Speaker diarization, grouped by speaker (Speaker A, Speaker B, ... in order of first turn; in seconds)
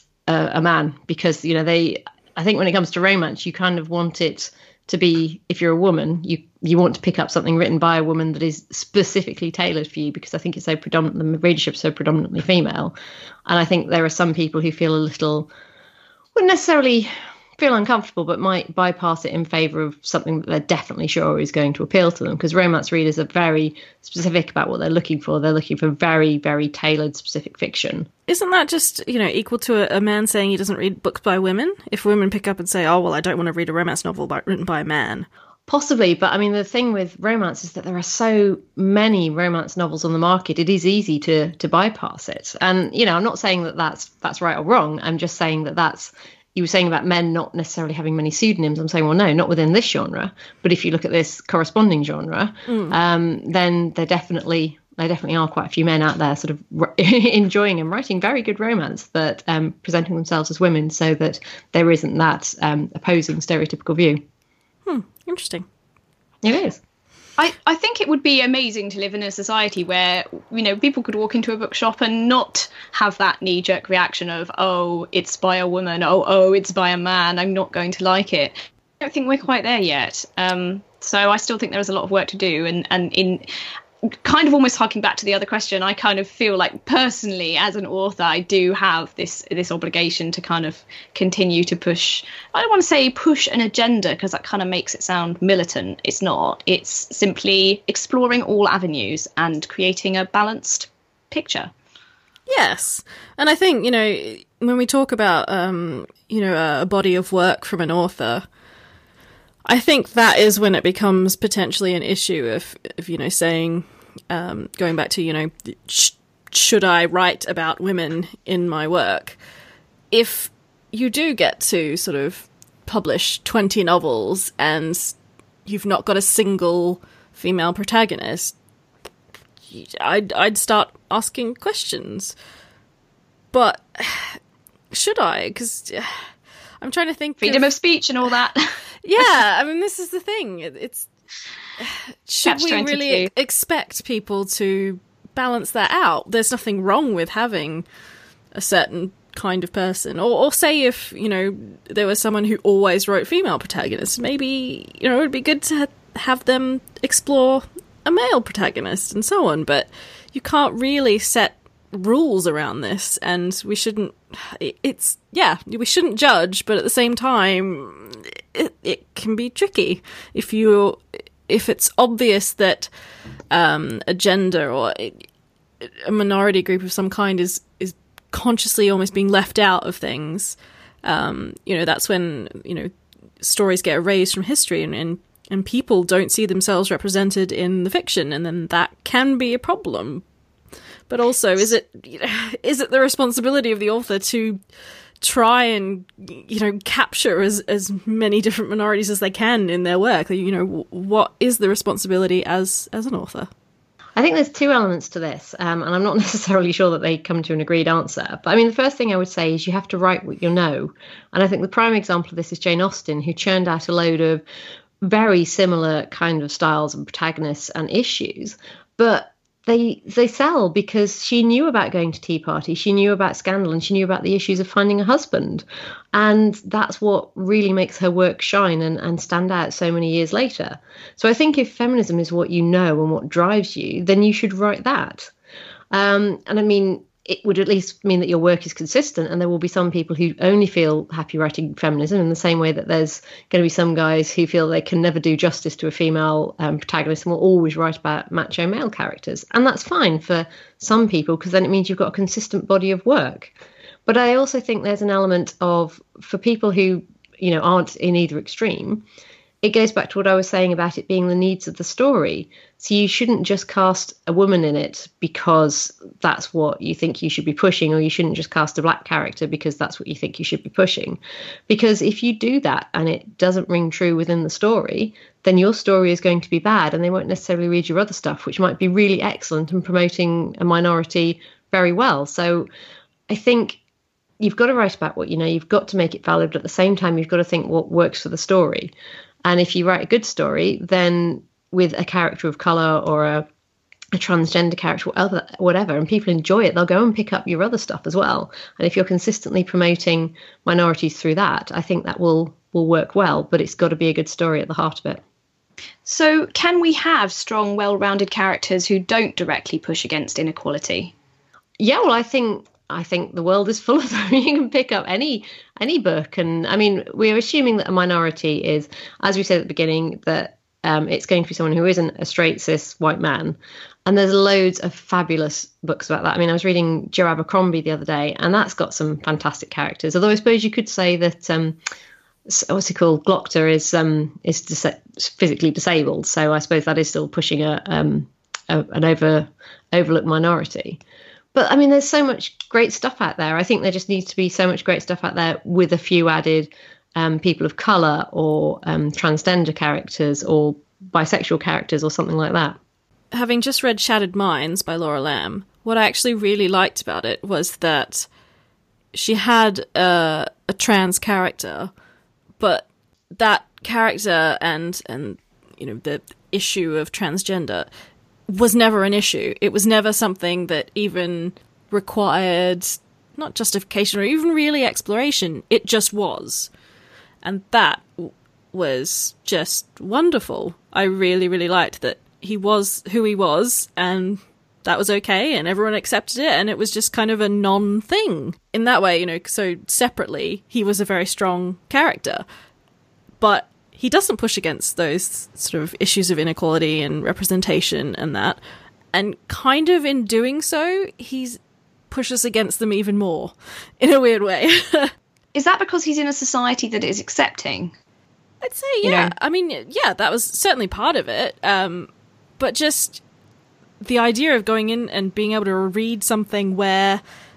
Speaker A: 0.3-12.9, 13.5-15.5, 16.4-28.1, 35.7-64.2, 66.4-66.8, 204.2-214.4, 215.0-235.3, 235.9-253.5, 254.1-259.1, 259.6-282.7, 283.3-283.8, 284.4-288.9, 289.4-293.5, 294.1-305.2, 311.8-331.8, 332.5-341.0, 341.5-352.8
Speaker B: 28.3-35.3, 52.7-53.0, 64.9-65.7, 102.5-108.5, 109.7-119.4, 120.1-125.1, 125.7-128.6, 129.7-132.3, 133.5-134.4, 134.9-137.7, 139.0-141.1, 141.8-147.8, 148.5-172.9, 173.5-175.2, 175.8-190.2, 191.1-194.6, 195.2-203.5, 353.3-358.3, 359.1-361.9, 362.6-367.9, 368.5-376.7, 377.4-392.4, 393.4-398.6, 399.1-401.6, 402.1-405.1, 408.6-413.2, 414.0-417.2
Speaker C: 67.4-83.5, 84.2-101.7, 137.4-138.6, 142.4-143.3, 306.0-311.1, 405.6-407.9, 409.0-409.3